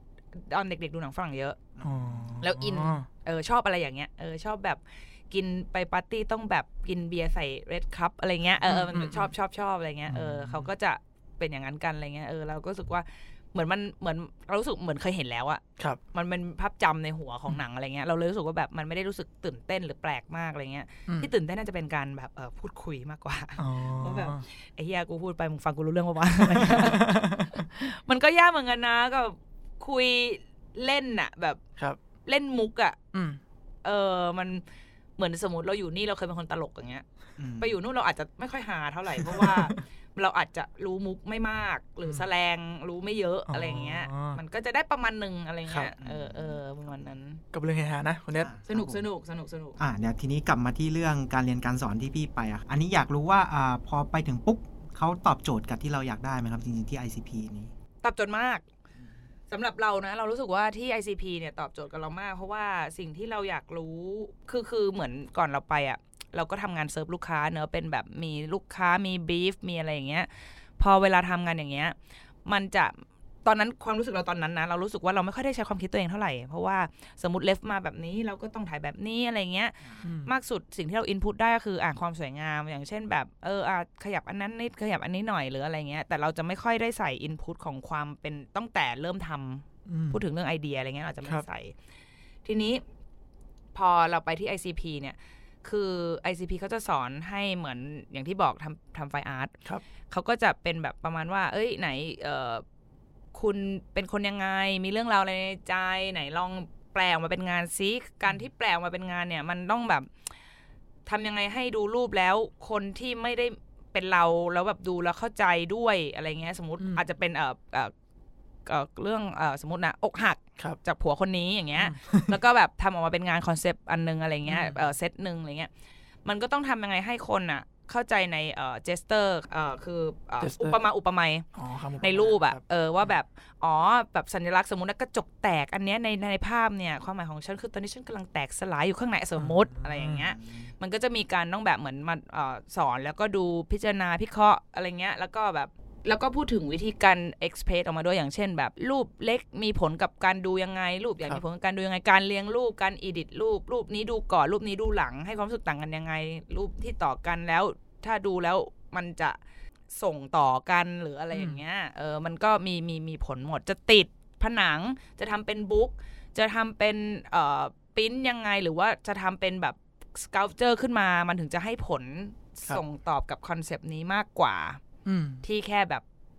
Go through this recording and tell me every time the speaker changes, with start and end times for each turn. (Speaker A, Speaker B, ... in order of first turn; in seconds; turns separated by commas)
Speaker A: 0.3-1.6, Speaker B: 1.8-2.4, Speaker C: 1.8-3.1, Speaker A: 2.4-31.6, Speaker C: 8.6-9.3, Speaker C: 10.1-10.7, Speaker C: 23.6-24.4, Speaker C: 26.4-27.6, Speaker A: 32.2-33.0, Speaker C: 33.1-33.4, Speaker A: 33.8-34.6, Speaker A: 35.2-37.0, Speaker B: 37.4-37.8, Speaker A: 37.6-47.4, Speaker C: 39.2-39.8, Speaker C: 43.5-44.4, Speaker B: 46.0-46.6, Speaker C: 47.5-48.5, Speaker B: 48.4-49.0, Speaker A: 48.7-49.8, Speaker B: 49.8-57.7, Speaker A: 58.0-58.6, Speaker A: 59.5-91.8, Speaker B: 79.8-80.1, Speaker C: 80.0-80.3, Speaker C: 89.9-90.2, Speaker A: 92.5-92.8, Speaker A: 93.8-99.5, Speaker A: 100.1-102.6, Speaker A: 103.3-110.1, Speaker A: 111.1-117.9, Speaker A: 118.7-125.7, Speaker C: 121.8-122.4, Speaker C: 124.5-124.8, Speaker A: 126.2-131.5, Speaker C: 130.4-130.8, Speaker C: 131.5-132.6, Speaker A: 132.0-159.4, Speaker C: 139.4-140.2, Speaker B: 140.0-140.7, Speaker A: 159.9-174.8, Speaker C: 161.3-161.6, Speaker C: 175.1-175.4, Speaker A: 175.4-176.0